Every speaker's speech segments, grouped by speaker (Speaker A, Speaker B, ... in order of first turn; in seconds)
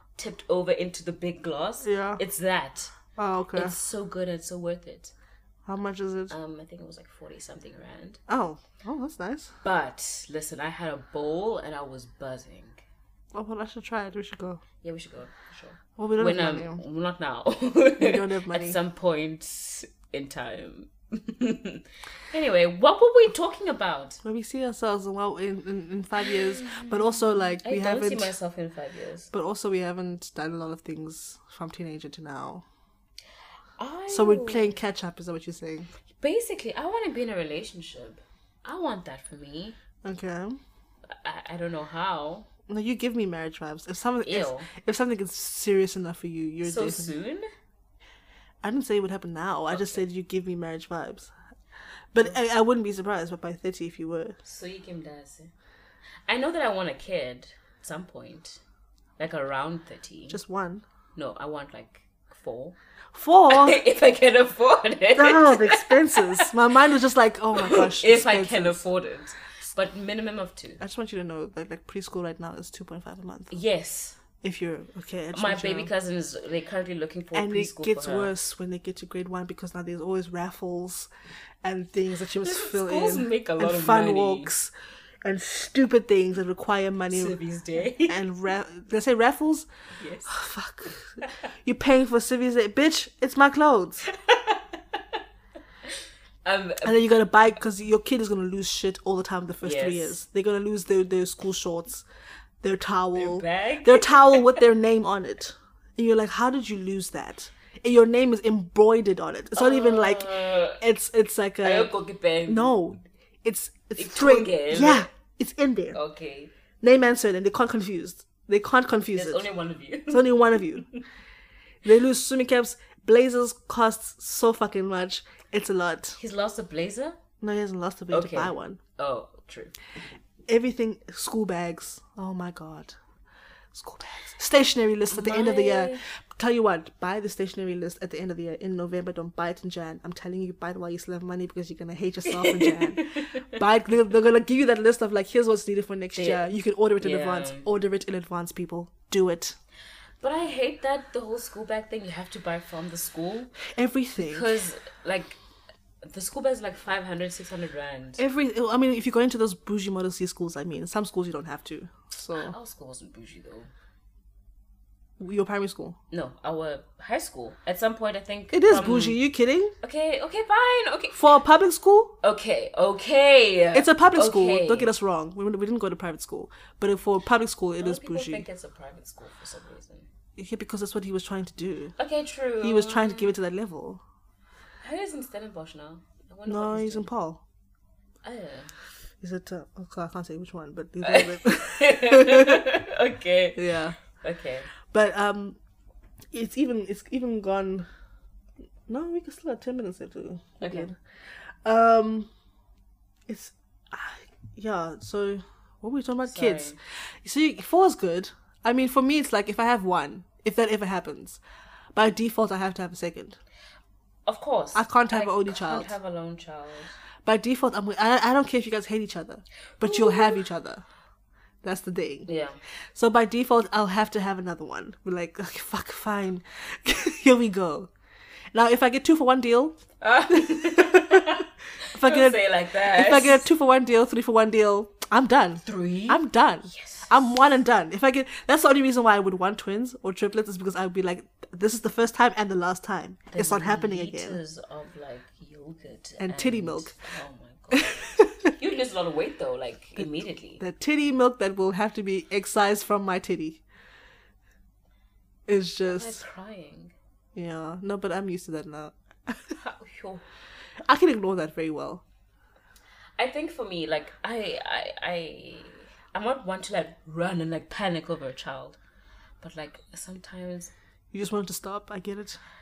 Speaker A: 0.1-2.9, 3.5-5.1, 6.3-8.2, 9.6-12.8, 14.8-24.2, 26.2-29.3, 33.8-34.8, 36.2-39.8, 41.1-42.5, 44.2-44.7, 46.6-47.5, 49.7-50.0, 54.4-55.5, 56.3-58.6, 59.2-60.4, 61.1-62.8, 63.5-66.5, 67.5-70.8, 73.5-74.2, 75.3-78.3, 82.4-84.5, 87.1-88.2, 90.0-90.3, 94.0-95.2, 95.9-97.0, 99.6-100.2, 103.1-104.6, 109.6-110.8, 111.6-112.7, 114.0-115.1, 115.9-116.5, 119.1-121.0, 126.2-127.2, 128.1-129.8, 135.1-136.0, 142.3-143.5, 146.2-146.5, 147.0-147.7, 150.2-153.5, 154.2-155.4, 156.0-158.2, 162.4-163.7, 166.1-169.2, 169.8-171.3, 172.2-174.9, 177.8-180.1, 182.0-183.3, 184.8-187.1, 188.2-188.7, 191.0-194.7, 200.6-200.9, 206.2-206.8, 214.2-216.9, 219.8-220.3, 222.3-222.6, 230.0-233.4, 235.6-237.2, 243.3-250.6, 255.8-256.9, 259.5-260.2, 263.2-268.8, 269.4-270.7
Speaker B: 1.8-2.2, 3.1-3.8, 5.7-6.3, 8.3-9.5, 13.3-14.6, 16.0-16.8, 18.0-18.8, 24.2-28.3, 29.3-32.6, 34.1-35.9, 40.0-40.6, 42.7-47.1, 48.6-51.3, 52.1-54.4, 60.3-60.8, 63.1-63.8, 65.2-68.8, 70.8-73.5, 74.4-75.9, 77.3-81.1, 81.6-84.7, 85.2-87.4, 88.1-89.7, 90.3-94.0, 96.8-102.0, 102.6-111.9, 112.5-116.0, 116.8-119.5, 120.1-120.9, 121.8-126.2, 127.4-128.8, 130.5-132.9, 133.7-149.6, 153.7-154.5, 158.2-162.6, 165.2-166.0, 168.5-169.7, 171.1-172.2, 173.7-178.4, 180.4-181.9, 182.6-184.0, 186.5-187.4, 189.2-192.8, 193.6-194.0, 194.9-195.6, 196.3-197.9, 198.9-201.0, 201.6-202.3, 203.3-211.4, 211.9-213.4, 214.7-215.9, 217.2-220.8, 221.6-222.3, 222.9-227.9, 228.5-244.4, 246.2-246.9, 247.7-248.5, 250.0-253.6, 255.5-256.2, 257.4-259.6, 260.8-262.0, 271.1-272.4